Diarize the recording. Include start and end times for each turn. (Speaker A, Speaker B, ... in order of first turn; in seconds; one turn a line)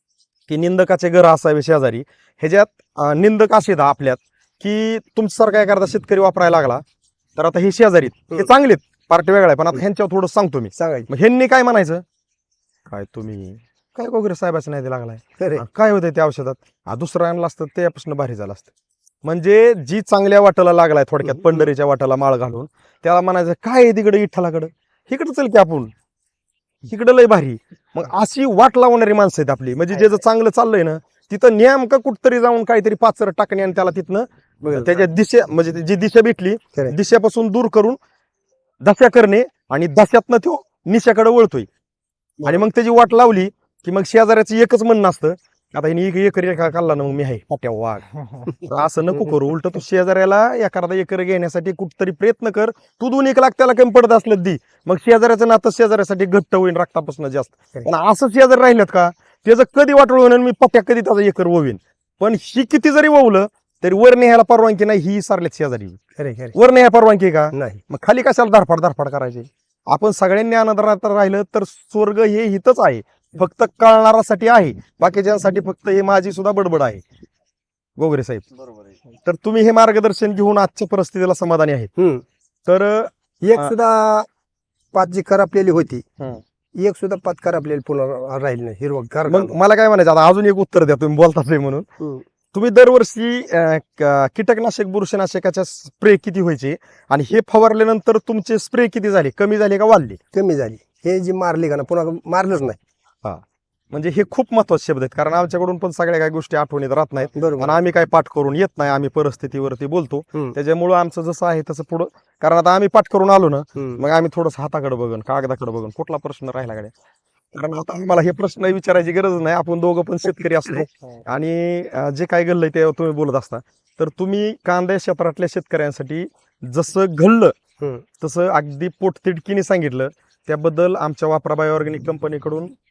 Speaker A: 0.5-6.8
Speaker A: 7.3-12.0
Speaker B: 10.8-11.1
Speaker A: 12.9-18.7
Speaker B: 15.4-15.6
Speaker A: 19.2-25.9
Speaker B: 21.2-21.7
Speaker A: 26.9-38.0
Speaker B: 34.6-35.0
Speaker A: 38.8-41.7
Speaker B: 42.4-42.6
Speaker A: 42.4-66.0
Speaker B: 66.2-66.5
Speaker A: 66.5-77.0
Speaker B: 67.5-67.8
Speaker A: 78.0-78.5
Speaker A: 79.2-81.9
Speaker B: 82.0-82.2
Speaker A: 82.7-83.7
Speaker B: 83.4-84.3
Speaker B: 84.9-86.0
Speaker B: 86.8-89.6
Speaker A: 89.3-91.8
Speaker A: 92.5-100.2
Speaker B: 100.3-102.8
Speaker A: 103.2-116.9
Speaker B: 107.3-107.8
Speaker B: 113.8-114.0
Speaker A: 117.5-127.5
Speaker B: 127.8-128.0
Speaker A: 128.2-132.7